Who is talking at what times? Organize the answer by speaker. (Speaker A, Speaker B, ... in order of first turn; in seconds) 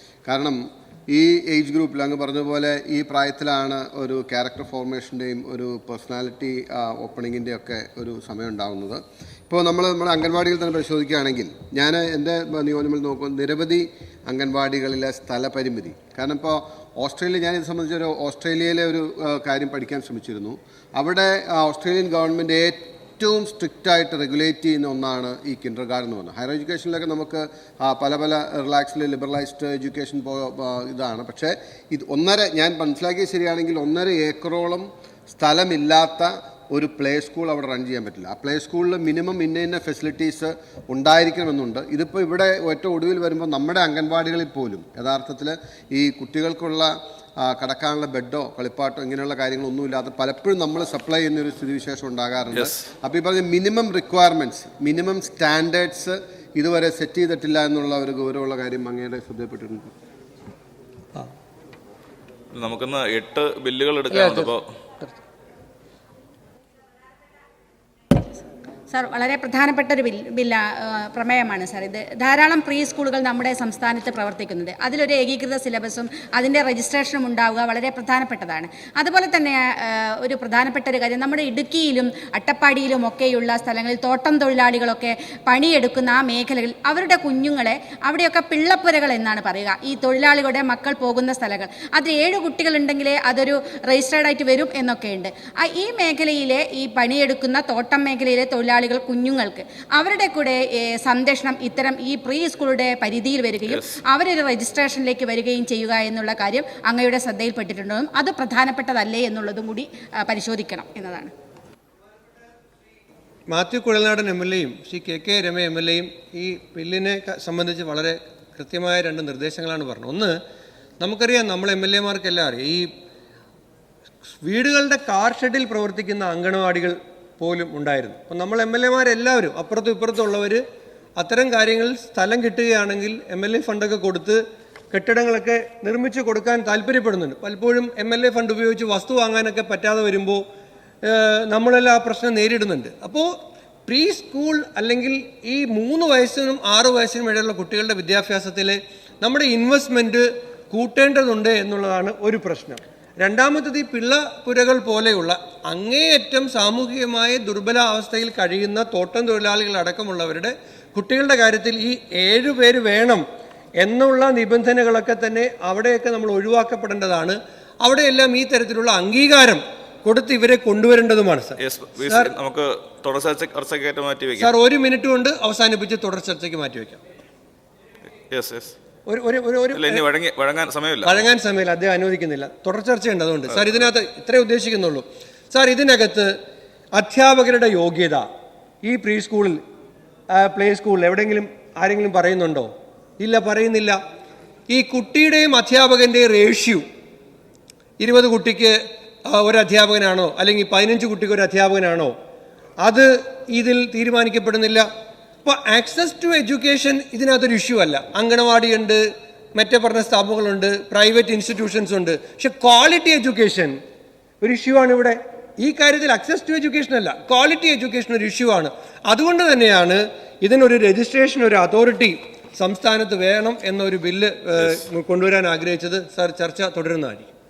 Speaker A: 0.3-59.9
Speaker B: 62.5-64.6, 103.7-103.9, 171.6-174.5, 178.3-178.7, 179.7-181.3, 183.5-183.9
Speaker C: 68.9-111.3
Speaker D: 113.5-120.3, 121.0-122.9, 124.4-130.6, 131.2-140.4, 141.0-143.3, 143.9-163.2, 163.8-172.3, 174.4-177.0, 179.1-180.1, 181.0-186.3, 186.9-188.3, 188.8-189.6, 190.3-194.0, 194.7-196.8, 198.0-198.8, 199.3-202.1, 202.8-204.9, 205.4-209.0, 209.6-213.8, 214.4-227.3